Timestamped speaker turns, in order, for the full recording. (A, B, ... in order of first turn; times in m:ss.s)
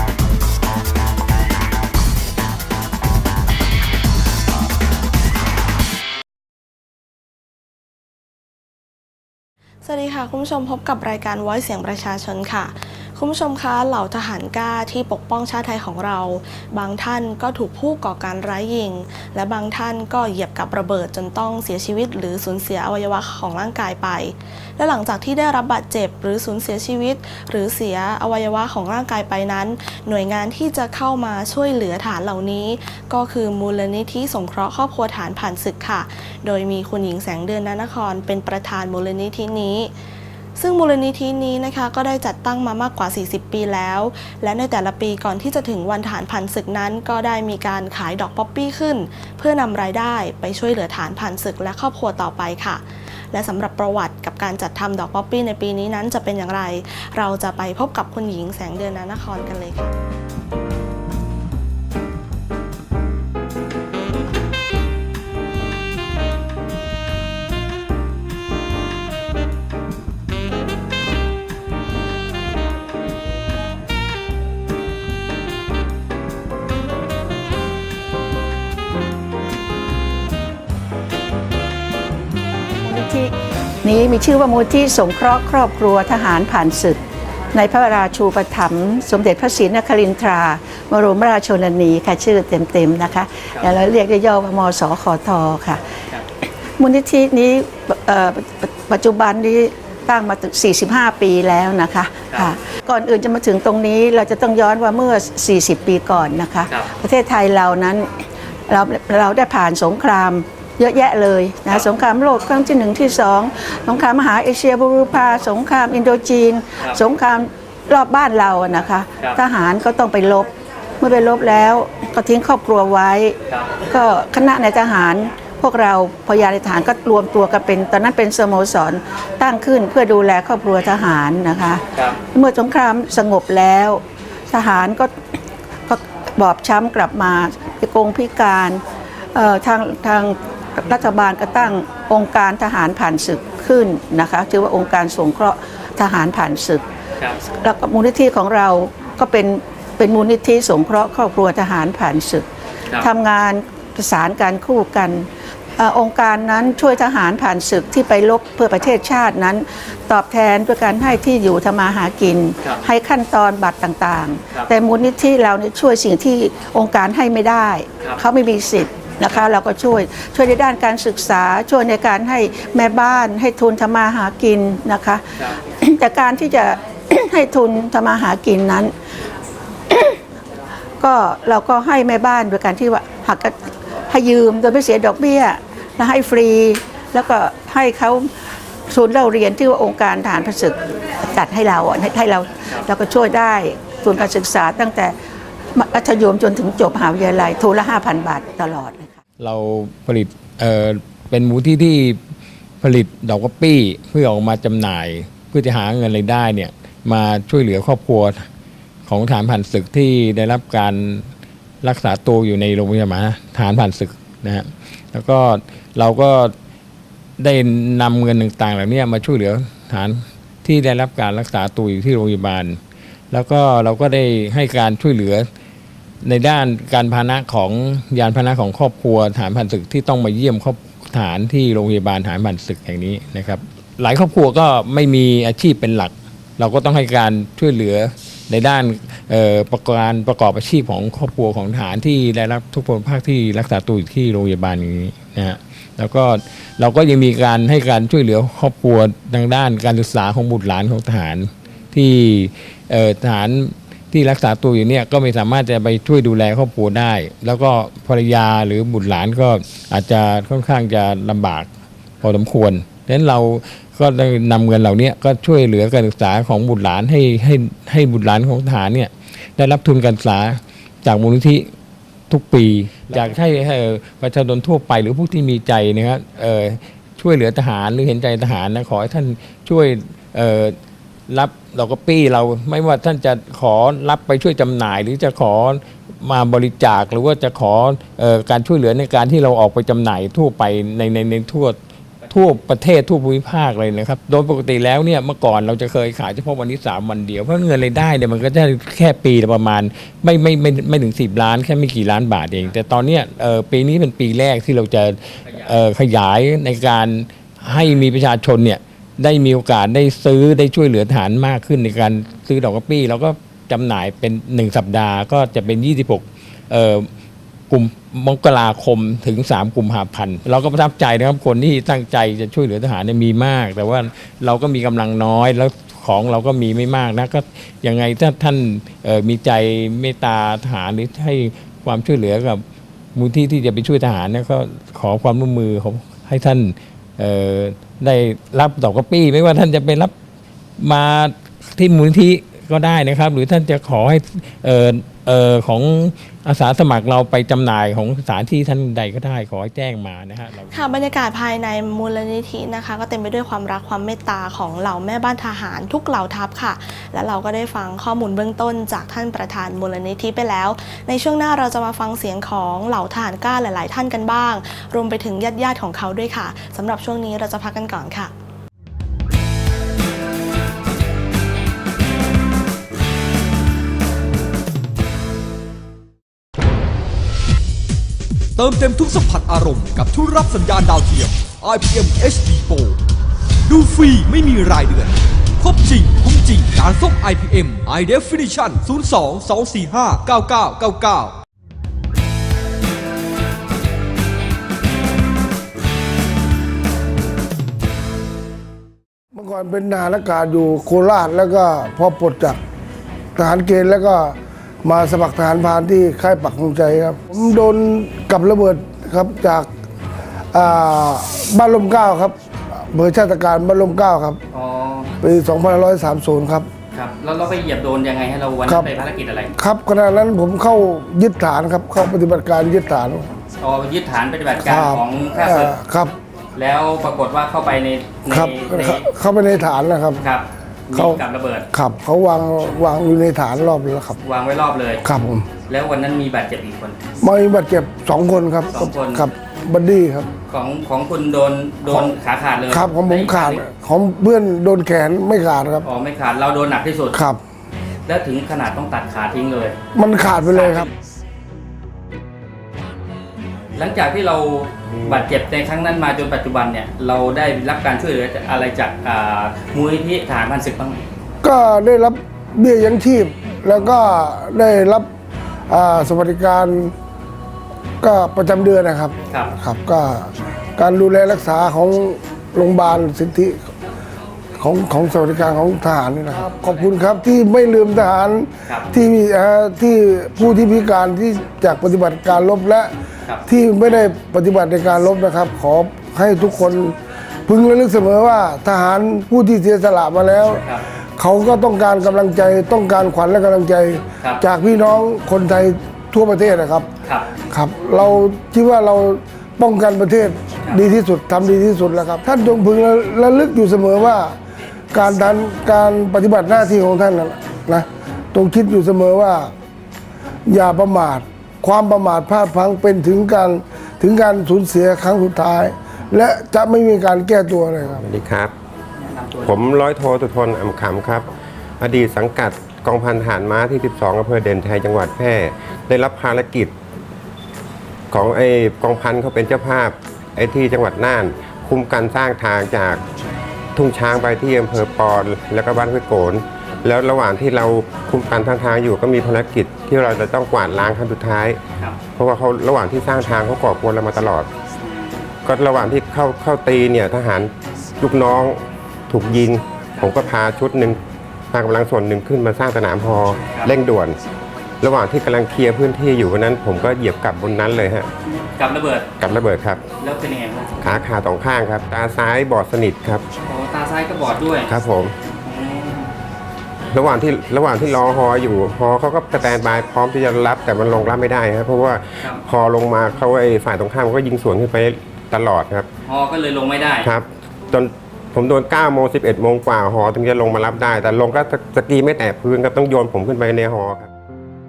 0:09.8-0:39.9 A
0:40.6-0:59.9 A
1:22.8-1:23.3 B
1:23.8-1:27.0 B
1:27.5-1:35.9 B
1:36.8-2:00.5 B
2:01.0-2:15.1 B
2:11.9-2:12.2 C
2:15.9-2:18.8 B
2:19.3-2:26.8 B
2:27.4-2:32.5 B
2:33.0-2:35.3 B
2:35.8-2:55.2 B
2:42.6-2:42.9 C
2:55.8-2:58.9 B
2:59.9-3:00.2 B
3:01.0-3:03.6 B
3:04.1-3:08.3 B
3:08.9-3:15.1 B
3:15.7-3:19.1 B
3:19.4-3:22.2 D
3:22.8-3:28.5 D
3:29.0-3:31.3 D
3:31.8-3:36.5 D
3:37.4-3:42.8 D
3:43.3-3:45.5 D
3:46.2-4:21.7 D
4:22.2-4:31.7 D
4:32.3-4:40.8 D
4:33.1-4:33.4 C
4:41.3-4:51.8 D
4:52.3-5:17.1 D
5:05.4-5:05.8 C
5:17.7-5:32.6 D
5:33.1-5:40.1 D
5:40.8-5:50.8 D
5:50.7-6:08.3 A
6:18.6-6:23.0 E
6:23.7-6:31.4 E
6:39.3-6:42.6 F
6:43.4-6:49.7 F
6:50.5-6:54.4 F
6:54.5-6:55.1 C
6:55.2-6:56.7 F
6:56.9-6:59.5 C
6:58.6-6:58.9 F
6:59.6-7:03.3 F
7:03.6-7:05.7 C
7:04.6-7:06.1 F
7:06.6-7:09.0 C
7:08.3-7:10.2 F
7:10.2-7:11.6 C
7:10.9-7:11.2 F
7:11.7-7:14.2 F
7:14.2-7:15.0 C
7:15.0-7:15.4 F
7:15.7-7:17.0 C
7:17.2-7:20.3 F
7:18.7-7:19.2 C
7:20.5-7:23.6 C
7:21.9-7:22.1 F
7:22.7-7:25.8 F
7:25.8-7:27.2 C
7:27.1-7:27.4 F
7:28.1-7:29.8 C
7:29.9-7:30.9 F
7:30.5-7:30.9 C
7:33.8-7:41.0 C
7:41.4-7:45.1 F
7:45.7-7:46.9 F
7:48.0-7:53.6 F
7:54.6-8:02.9 F
7:56.5-7:56.9 C
8:03.5-8:07.0 F
8:07.5-8:10.6 F
8:11.2-8:16.9 F
8:17.0-8:17.3 C
8:17.5-8:24.4 F
8:24.9-8:29.5 F
8:30.4-8:38.0 F
8:38.0-8:38.5 G
8:39.0-8:39.6 C
8:39.4-8:41.2 G
8:41.8-8:46.7 G
8:48.1-8:53.0 G
8:53.8-9:01.6 G
9:02.2-9:04.5 G
9:05.4-9:08.6 G
9:09.1-9:11.0 G
9:11.5-9:14.2 G
9:14.8-9:18.1 G
9:18.3-9:19.1 C
9:19.2-9:19.8 G
9:20.0-9:21.0 C
9:20.8-9:23.2 G
9:23.5-9:24.7 C
9:24.7-9:25.1 G
9:25.4-9:26.1 C
9:26.9-9:35.9 G
9:36.0-9:37.1 C
9:37.0-9:44.1 G